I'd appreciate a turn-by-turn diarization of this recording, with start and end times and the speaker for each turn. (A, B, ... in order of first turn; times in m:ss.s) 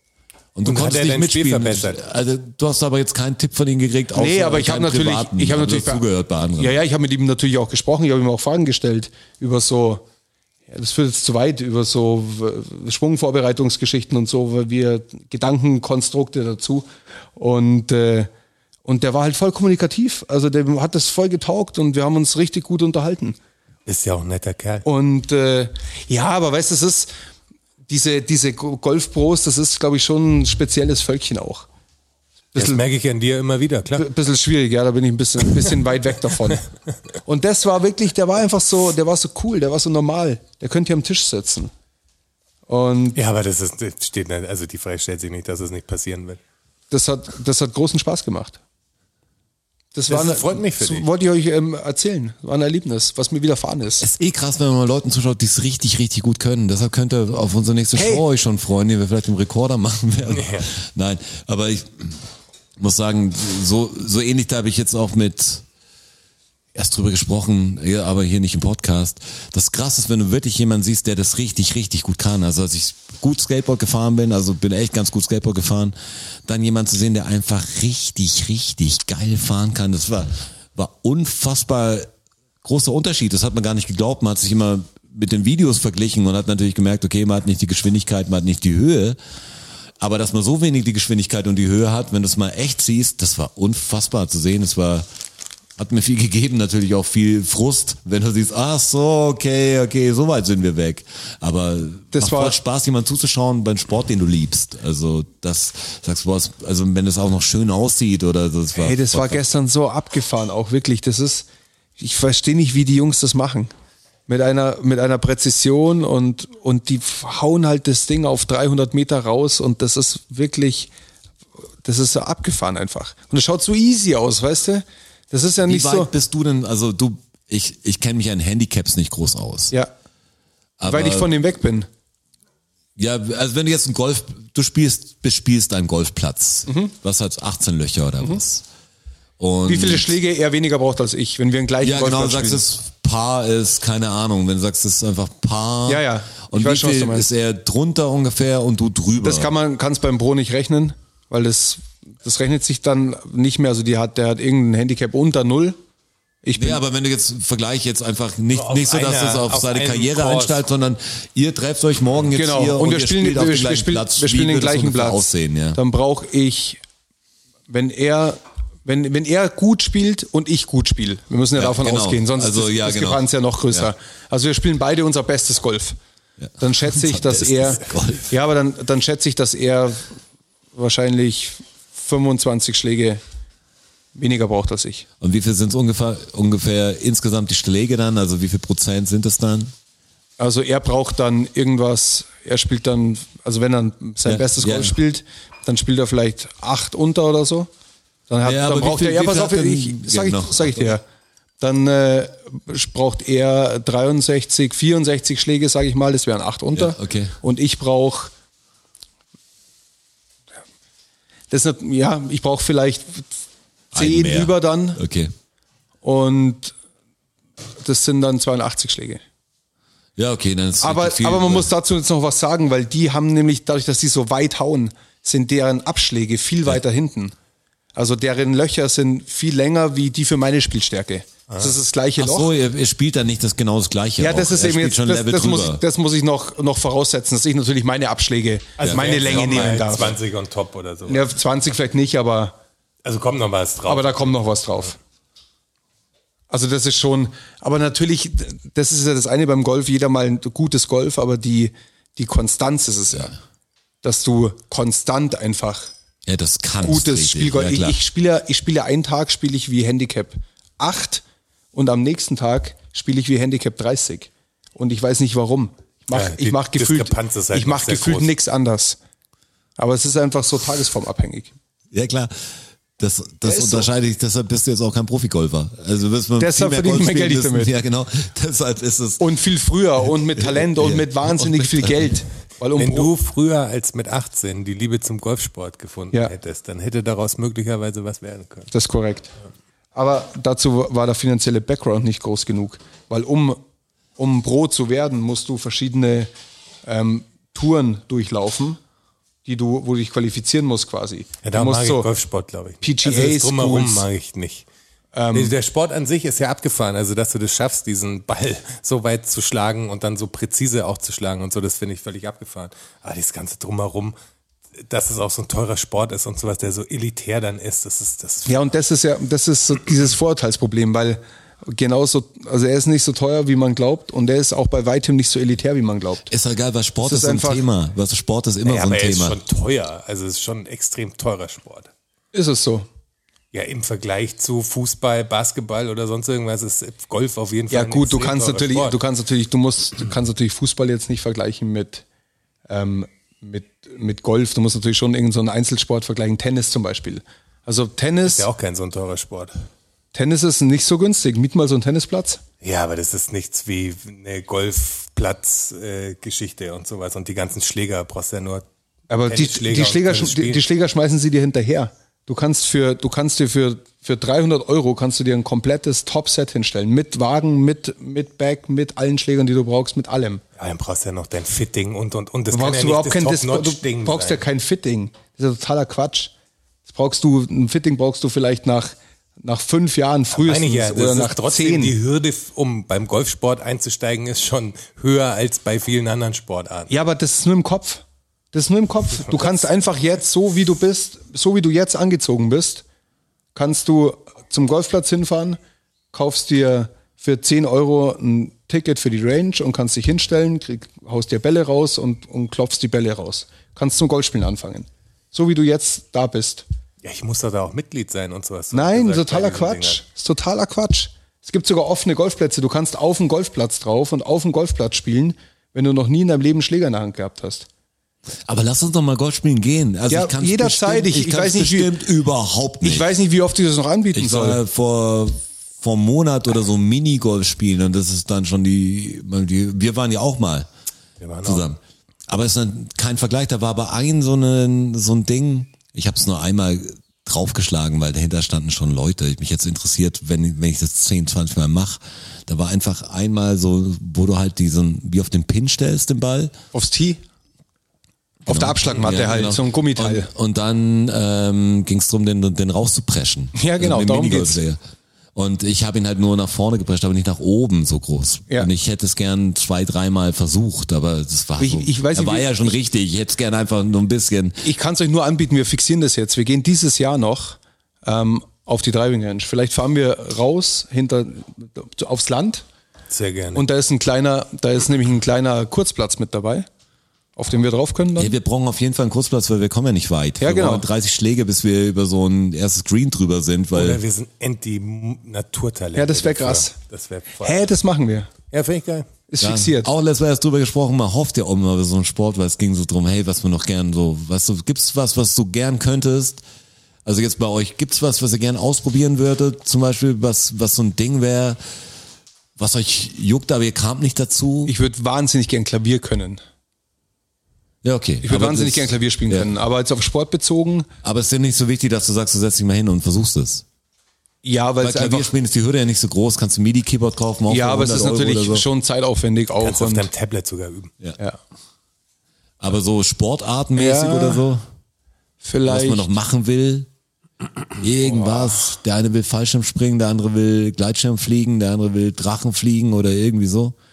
0:00.6-0:06.8 A
0:00.6-0:02.0 B
0:04.2-0:06.0 C
0:06.6-0:10.1 C
0:10.7-0:18.3 C
0:18.9-0:23.4 C
0:23.9-0:24.8 B
0:24.8-0:27.1 C
0:27.9-0:31.7 C
0:32.5-0:32.8 C
0:32.6-0:34.1 B
0:34.0-0:36.6 C
0:37.2-0:41.7 C
0:42.7-0:43.2 C
0:43.2-0:46.4 B
0:46.9-0:48.6 C
0:49.9-0:54.1 C
0:50.1-0:51.1 B
0:54.0-1:02.2 A
0:57.9-0:58.2 C
1:00.3-1:00.7 B
1:02.8-1:05.6 A
1:06.7-1:16.0 A
1:16.5-1:22.1 A
1:22.6-1:29.2 A
1:30.0-1:35.1 A
1:35.8-1:49.4 A
1:42.1-1:42.6 C
1:48.8-1:53.7 C
1:54.3-2:00.9 C
2:01.8-2:06.1 C
2:05.6-2:09.7 A
2:10.8-2:11.3 A
2:10.9-2:11.9 C
2:13.0-2:18.7 A
2:16.7-2:16.9 C
2:19.4-2:20.1 A
2:19.6-2:22.6 C
2:21.8-2:29.5 A
2:25.9-2:27.3 C
2:29.2-2:35.8 C
2:36.4-2:36.8 C
2:36.6-2:45.8 A
2:38.6-2:40.6 B
2:42.3-2:46.8 C
2:47.7-2:56.0 C
2:51.6-2:53.9 A
2:56.4-2:58.3 A
2:56.6-3:00.1 C
3:00.7-3:03.2 C
3:04.2-3:05.1 C
3:05.2-3:09.7 A
3:10.4-3:17.7 C
3:14.2-3:15.0 A
3:18.3-3:21.0 C
3:18.4-3:20.9 A
3:21.6-3:28.3 C
3:26.7-3:27.4 A
3:31.5-3:33.4 C
3:33.9-3:35.3 A
3:33.9-3:35.0 C
3:36.0-3:36.8 C
3:37.8-3:39.2 C
3:40.2-3:41.7 A
3:40.8-3:47.3 C
3:48.0-3:52.5 C
3:51.5-3:51.8 B
3:52.2-3:55.8 A
3:54.2-4:00.2 C
3:58.8-3:59.3 A
3:58.8-4:01.2 B
4:01.1-4:02.6 C
4:03.0-4:04.4 B
4:03.9-4:05.0 C
4:06.5-4:13.4 C
4:14.0-4:15.9 C
4:16.3-4:18.0 A
4:16.8-4:29.0 C
4:26.1-4:28.3 B
4:29.8-4:31.5 C
4:31.9-4:32.3 A
4:33.0-4:39.2 A
4:33.4-4:33.9 C
4:36.4-4:37.7 C
4:39.2-4:43.1 C
4:40.4-4:41.9 A
4:42.8-4:48.7 B
4:48.7-4:49.3 C
4:50.0-4:53.6 C
4:54.2-4:56.3 C
4:56.8-4:58.8 C
4:59.4-5:02.1 C
5:01.4-5:04.7 B
5:02.8-5:04.1 C
5:05.2-5:05.6 C
5:05.3-5:14.2 B
5:14.8-5:18.7 B
5:18.5-5:26.3 C
5:26.3-5:29.4 A
5:27.0-5:27.6 C
5:28.6-5:31.9 B
5:32.3-5:32.9 C
5:33.5-5:39.0 B
5:37.7-5:42.0 C
5:42.7-5:48.5 C
5:48.3-5:49.5 B
5:50.1-5:52.4 C
5:52.6-5:58.7 B
5:59.1-6:10.4 C
5:59.3-6:00.7 B
6:10.6-6:14.4 B
6:12.5-6:16.3 C
6:16.9-6:22.0 C
6:20.4-6:26.9 B
6:26.9-6:32.8 C
6:33.6-6:35.6 C
6:36.1-6:46.6 C
6:47.0-6:50.0 B
6:48.7-6:57.7 C
6:58.5-7:03.2 A
7:00.1-7:02.0 C
7:02.8-7:04.6 C
7:04.1-7:10.7 A
7:11.2-7:11.7 B
7:11.4-7:26.5 A
7:26.7-7:27.2 C
7:28.5-7:30.3 C
7:28.5-7:34.8 A
7:33.6-7:34.6 C
7:35.4-7:44.6 A
7:41.6-7:42.8 C
7:44.6-7:52.6 C
7:53.1-7:53.7 B
7:53.6-7:56.7 C
7:57.4-7:58.3 C
7:58.2-8:04.0 A
8:00.4-8:00.9 C
8:03.7-8:07.6 B
8:06.0-8:06.8 C
8:07.4-8:08.3 C
8:08.5-8:09.1 B
8:09.3-8:09.9 C
8:09.4-8:16.4 A
8:17.0-8:21.6 A
8:22.6-8:24.7 A
8:24.7-8:26.4 C
8:27.8-8:29.5 A
8:28.2-8:30.9 C
8:31.0-8:33.6 A
8:34.4-8:35.3 C
8:34.8-8:38.7 A
8:37.5-8:40.1 C
8:39.6-8:40.9 B
8:42.6-8:44.6 A
8:43.8-8:44.4 C
8:45.4-8:46.1 C
8:45.7-8:46.9 A
8:47.8-8:53.8 A